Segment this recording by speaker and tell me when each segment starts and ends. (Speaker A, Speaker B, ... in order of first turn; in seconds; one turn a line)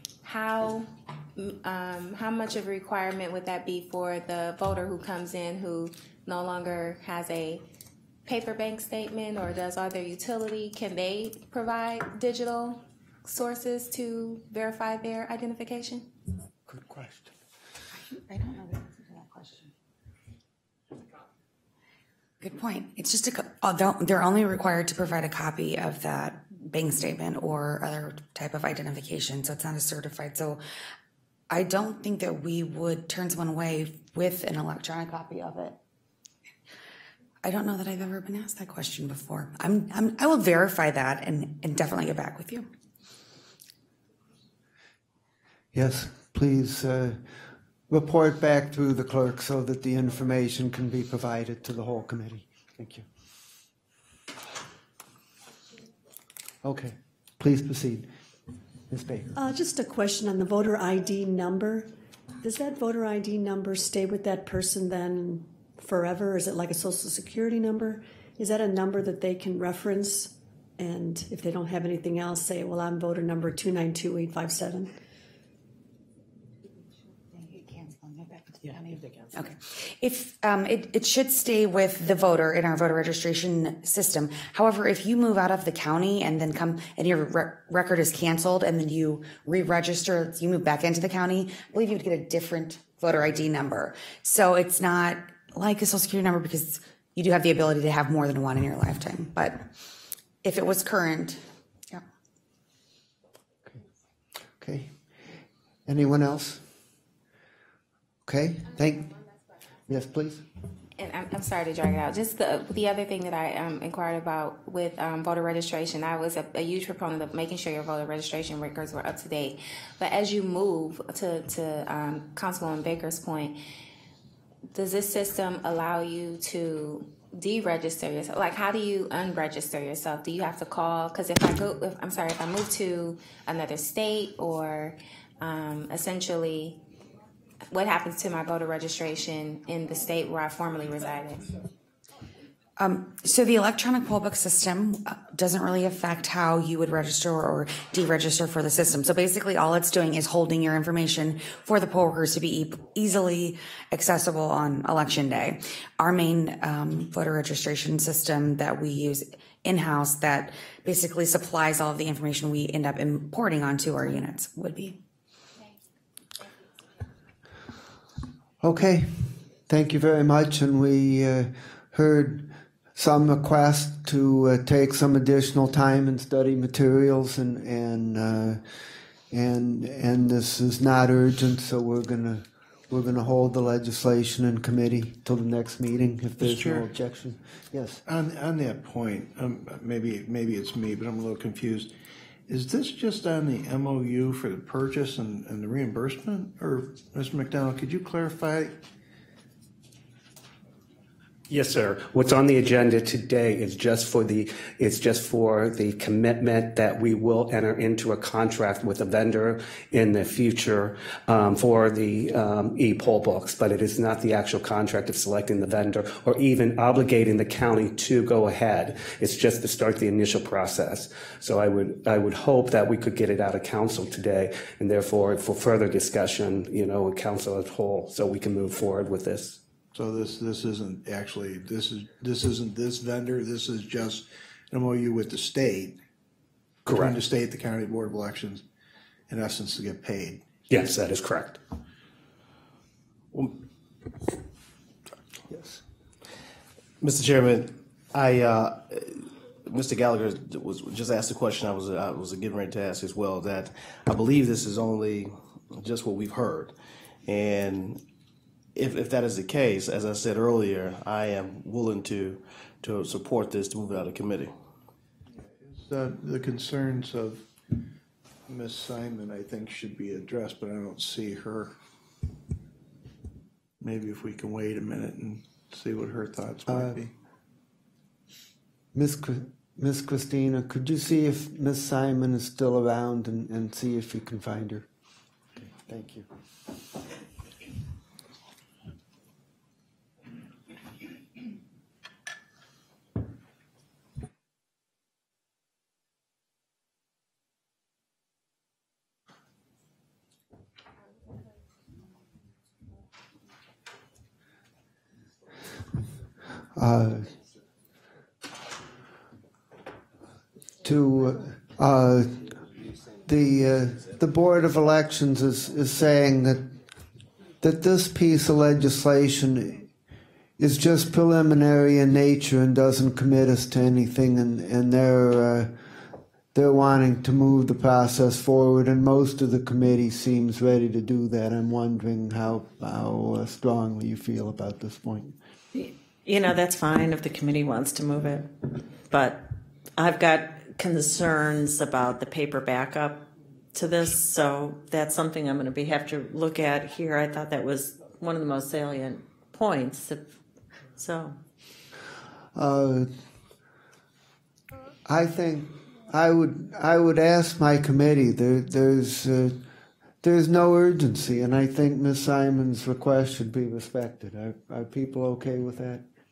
Speaker A: 0.2-7.6
Speaker A: 8.2-16.1
Speaker B: 16.7-17.3
Speaker C: 18.1-19.7
Speaker C: 22.4-30.6
Speaker C: 31.5-35.8
Speaker C: 37.4-42.7
Speaker B: 45.7-47.2
Speaker B: 47.9-53.0
Speaker B: 56.6-58.1
Speaker B: 58.9-59.3
Speaker D: 59.3-75.0
Speaker C: 77.3-99.7
Speaker C: 100.4-102.0
Speaker B: 104.6-105.0
Speaker B: 105.8-106.6
Speaker B: 108.3-109.2
Speaker B: 109.9-110.4
Speaker A: 111.0-123.6
Speaker A: 124.7-136.8
Speaker A: 137.7-141.6
Speaker C: 142.8-165.0
Speaker B: 168.6-178.7
Speaker B: 179.3-188.0
Speaker E: 186.4-186.9
Speaker E: 188.0-191.9
Speaker E: 192.5-198.8
Speaker F: 201.5-229.6
Speaker E: 229.9-236.0
Speaker F: 236.8-237.2
Speaker E: 236.9-238.6
Speaker E: 239.3-240.4
Speaker F: 240.7-241.6
Speaker B: 245.5-245.8
Speaker G: 247.0-256.7
Speaker G: 257.2-258.0
Speaker G: 258.7-264.5
Speaker E: 265.6-267.5
Speaker E: 268.5-271.7
Speaker E: 273.8-277.1
Speaker B: 276.7-277.0
Speaker B: 278.9-284.9
Speaker B: 285.6-286.3
Speaker B: 306.7-307.3
Speaker B: 310.8-312.6
Speaker B: 313.2-316.8
Speaker B: 317.6-319.9
Speaker B: 320.6-325.7
Speaker B: 326.5-335.4
Speaker H: 335.7-350.3
Speaker H: 350.9-351.4
Speaker B: 352.5-353.1
Speaker B: 355.1-359.6
Speaker B: 360.2-366.0